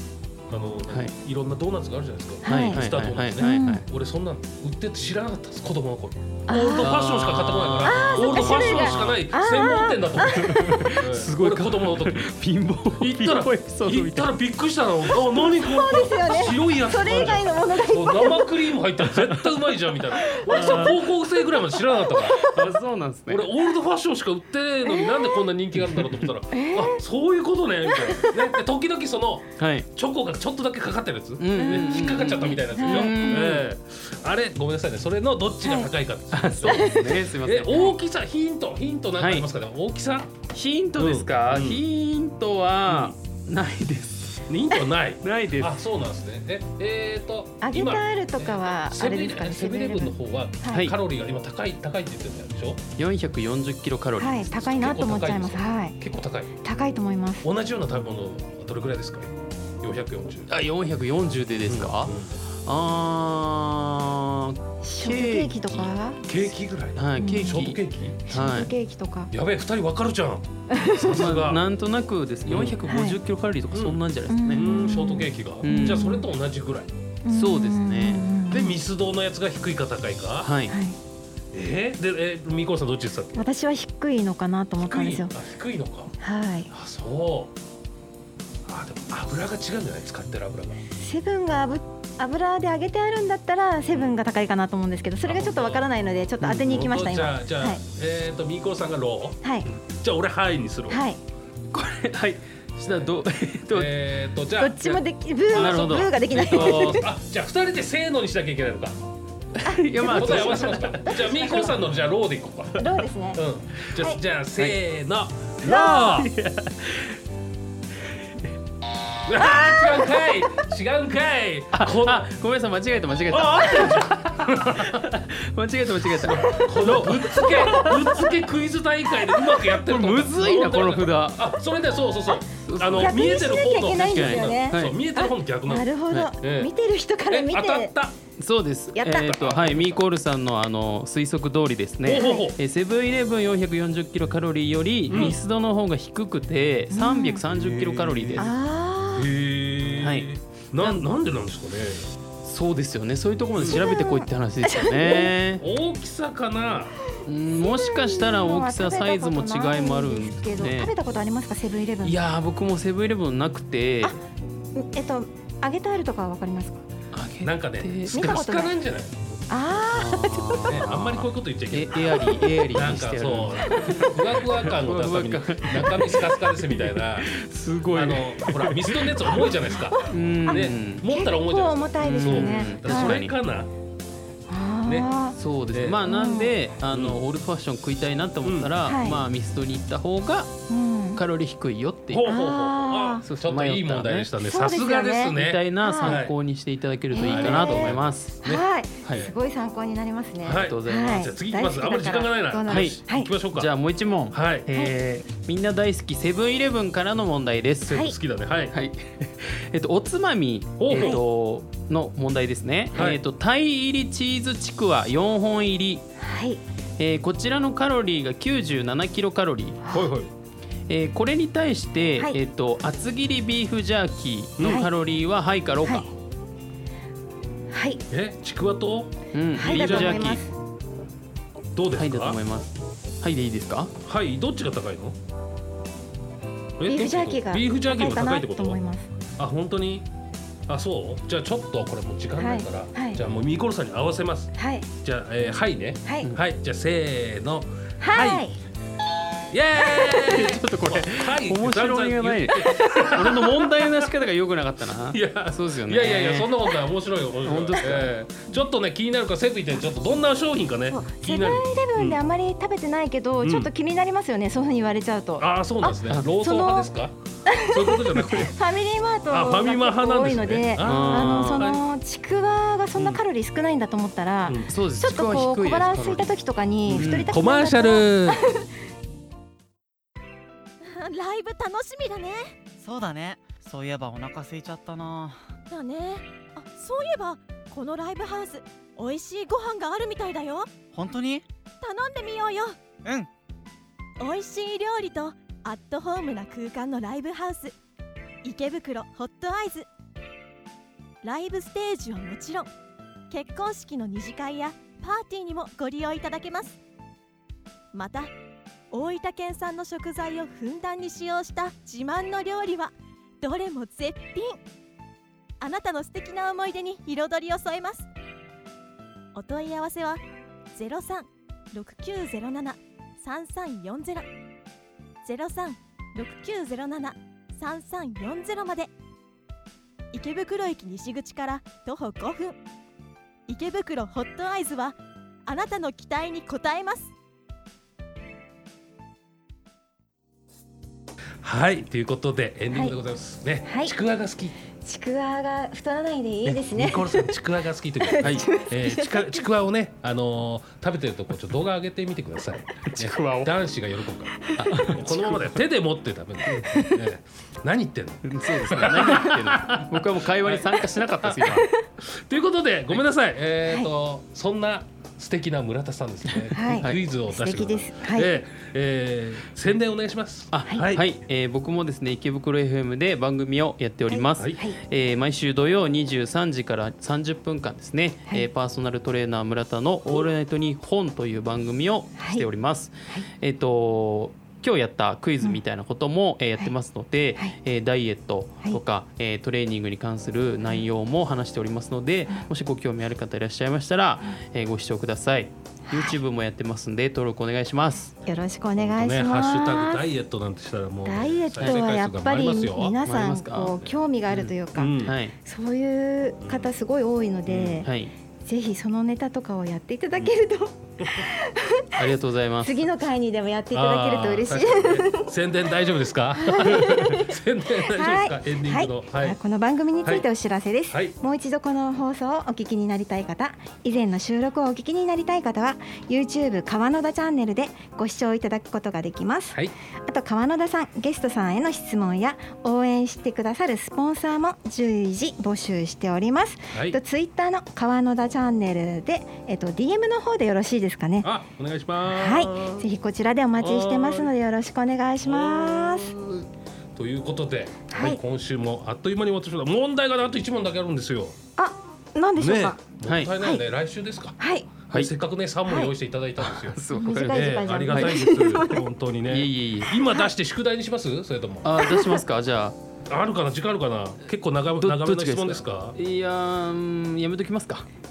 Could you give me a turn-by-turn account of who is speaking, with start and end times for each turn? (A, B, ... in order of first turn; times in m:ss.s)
0:00.5-0:12.2 A
0:02.4-0:02.8 B
0:02.4-0:03.8 C
0:03.4-0:03.8 B
0:06.5-0:07.0 B
0:06.7-0:09.2 C
0:07.8-0:10.8 B
0:10.2-0:14.4 C
0:13.0-0:22.4 A
0:15.3-0:18.8 B
0:20.2-0:21.0 B
0:20.4-0:21.0 C
0:21.7-0:22.7 B
0:22.4-0:23.4 C
0:23.3-0:40.3 A
0:24.8-0:25.4 B
0:26.5-0:27.0 B
0:27.9-0:28.5 B
0:29.6-0:29.9 C
0:31.4-0:33.7 C
0:31.6-0:32.1 B
0:32.7-0:33.5 B
0:35.6-0:35.9 B
0:36.3-0:37.8 C
0:36.7-0:37.2 B
0:39.2-0:39.4 C
0:40.5-0:44.4 C
0:41.0-0:41.8 A
0:42.9-0:43.1 A
0:44.5-0:52.8 A
0:45.2-0:45.8 C
0:47.6-0:50.9 B
0:53.0-0:54.8 C
0:54.2-0:56.0 B
0:54.5-0:56.5 A
0:56.6-0:57.5 B
0:57.4-0:59.3 A
0:59.8-1:00.5 A
1:00.5-1:02.1 C
1:01.7-1:02.4 A
1:02.6-1:05.9 C
1:04.8-1:06.2 B
1:06.2-1:08.2 A
1:07.0-1:08.7 C
1:07.2-1:07.6 B
1:08.3-1:09.3 B
1:09.3-1:11.6 A
1:10.7-1:11.2 B
1:11.0-1:14.7 C
1:12.5-1:12.8 A
1:12.8-1:13.2 B
1:13.7-1:14.0 A
1:14.3-1:16.3 B
1:14.5-1:16.9 A
1:15.6-1:16.1 C
1:17.2-1:18.8 B
1:17.3-1:18.3 C
1:18.5-1:20.5 A
1:20.4-1:20.7 C
1:20.7-1:21.0 B
1:21.5-1:23.5 A
1:23.3-1:25.3 B
1:24.8-1:26.1 A
1:26.2-1:26.7 B
1:26.7-1:27.5 A
1:28.6-1:30.8 A
1:30.9-1:37.8 B
1:35.2-1:35.9 A
1:36.4-1:36.9 C
1:36.6-1:41.0 A
1:40.9-1:41.2 B
1:41.7-1:44.0 C
1:43.7-1:44.8 A
1:44.6-1:47.1 B
1:44.8-1:47.0 C
1:45.5-1:49.0 A
1:49.6-1:51.3 C
1:50.0-1:50.6 B
1:50.1-1:56.3 A
1:51.1-1:51.8 B
1:52.8-1:53.4 B
1:55.6-1:57.2 C
1:59.2-2:02.3 A
1:59.5-2:00.2 B
2:01.7-2:08.2 C
2:03.3-2:04.9 A
2:06.4-2:16.7 A
2:07.3-2:08.0 B
2:09.5-2:11.5 C
2:12.6-2:13.2 C
2:13.0-2:17.9 B
2:13.9-2:14.9 C
2:17.3-2:18.1 A
2:18.4-2:28.5 C
2:18.9-2:19.3 B
2:19.1-2:20.0 A
2:22.0-2:22.6 A
2:22.1-2:22.5 B
2:25.1-2:25.4 A
2:26.9-2:27.4 B
2:27.5-2:28.5 A
2:28.4-2:29.3 B
2:29.1-2:32.1 A
2:30.0-2:31.1 C
2:32.4-2:35.6 C
2:33.6-2:33.8 A
2:33.7-2:35.3 B
2:35.6-2:36.9 A
2:37.2-2:40.9 C
2:37.6-2:42.2 B
2:42.0-2:44.2 C
2:44.8-2:46.8 B
2:47.1-2:48.2 C
2:47.4-2:49.3 A
2:48.1-2:48.7 B
2:49.5-2:50.8 B
2:49.9-2:59.6 C
2:50.6-2:57.3 A
2:57.9-3:03.7 A
2:59.4-3:03.2 B
3:00.1-3:01.0 C
3:02.0-3:03.3 C
3:04.5-3:05.4 B
3:04.8-3:05.1 A
3:05.3-3:10.5 C
3:05.7-3:06.0 A
3:06.0-3:06.5 B
3:06.9-3:07.2 A
3:08.4-3:08.8 A
3:08.9-3:09.2 B
3:10.7-3:11.2 B
3:11.1-3:12.3 C
3:12.1-3:16.3 A
3:12.2-3:13.2 B
3:13.2-3:14.3 C
3:14.4-3:16.2 B
3:15.3-3:18.4 C
3:17.1-3:23.3 B
3:17.2-3:19.3 A
3:20.4-3:23.7 A
3:20.6-3:21.3 C
3:22.7-3:23.0 C
3:23.5-3:28.1 C
3:24.3-3:24.7 A
3:27.9-3:28.7 A
3:28.7-3:36.0 C
3:30.8-3:31.2 A
3:30.9-3:31.2 B
3:32.9-3:33.2 A
3:36.2-3:36.6 B
3:37.0-3:39.8 C
3:39.9-3:40.3 A
3:40.9-3:46.1 C
3:44.6-3:44.8 A
3:44.6-3:44.9 B
3:47.7-3:48.0 B
3:48.1-3:49.1 A
3:49.3-3:50.4 C
3:49.5-3:50.5 B
3:49.6-3:50.3 A
3:51.7-3:52.4 A
3:52.0-3:53.9 C
3:54.0-3:55.2 A
3:56.8-3:58.8 A
3:56.8-3:59.1 B
3:59.4-4:00.1 A
4:00.7-4:08.5 A
4:02.4-4:03.2 B
4:04.5-4:04.9 B
4:06.0-4:06.3 B
4:08.0-4:08.6 B
4:09.5-4:14.1 A
4:10.1-4:16.6 C
4:15.0-4:22.2 A
4:17.4-4:18.1 C
4:20.9-4:26.9 B
4:23.4-4:23.7 A
4:25.4-4:28.6 A
4:27.5-4:38.6 B
4:29.3-4:31.8 A
4:30.8-4:31.8 C
4:32.9-4:33.2 A
4:34.4-4:34.7 A
4:34.7-4:36.3 C
4:36.9-4:37.3 C
4:37.2-4:38.4 A
4:40.8-4:42.6 D
4:42.8-4:45.4 E
4:45.7-4:50.7 D
4:50.9-4:51.4 E
4:51.8-4:52.8 D
4:54.2-4:57.8 D
4:58.4-4:59.9 D
5:01.2-5:02.7 D
5:03.3-5:06.8 D
5:07.9-5:08.3 D
5:08.9-5:14.6 D
5:15.6-5:18.1 D
5:19.3-5:24.3 D
5:25.2-5:28.9 D
5:30.1-5:32.6 D
5:33.5-5:37.1 D
5:41.4-5:44.6 A
5:42.7-5:43.0 B
5:43.6-5:43.9 B
5:44.8-5:47.4 B
5:46.4-6:11.0 A
5:48.0-5:49.5 B
5:48.2-5:48.4 C
5:52.8-5:53.5 C
5:54.6-5:55.6 C
5:58.2-6:01.7 C
6:06.5-6:08.4 B
6:10.5-6:38.1 C
6:14.1-6:14.8 B
6:14.4-6:14.6 A
6:22.2-6:22.5 B
6:38.2-6:40.1 B
6:38.8-6:43.0 A
6:41.0-6:47.9 B
6:43.0-6:44.5 C
6:44.7-6:45.2 A
6:45.0-6:45.3 C
6:46.4-6:46.7 A
6:47.4-6:47.9 A
6:47.8-6:48.1 C
6:48.4-6:52.0 B
6:52.0-6:52.8 C
6:52.6-6:55.3 B
6:53.7-6:59.4 A
6:56.3-7:21.3 B
7:00.9-7:01.2 A
7:16.7-7:17.0 A
7:21.2-7:22.9 A
7:22.1-7:26.2 B
7:23.6-7:24.3 A
7:25.2-7:31.3 A
7:27.9-7:28.2 B
7:31.6-7:32.8 B
7:32.4-7:34.4 A
7:33.0-7:33.3 C
7:34.4-7:34.7 B
7:34.9-7:41.7 A
7:35.6-7:35.9 B
7:36.4-7:38.2 C
7:36.9-7:38.8 B
7:39.3-7:40.0 C
7:41.6-7:42.8 C
7:41.8-7:42.2 B
7:43.1-7:46.0 A
7:44.8-7:47.8 C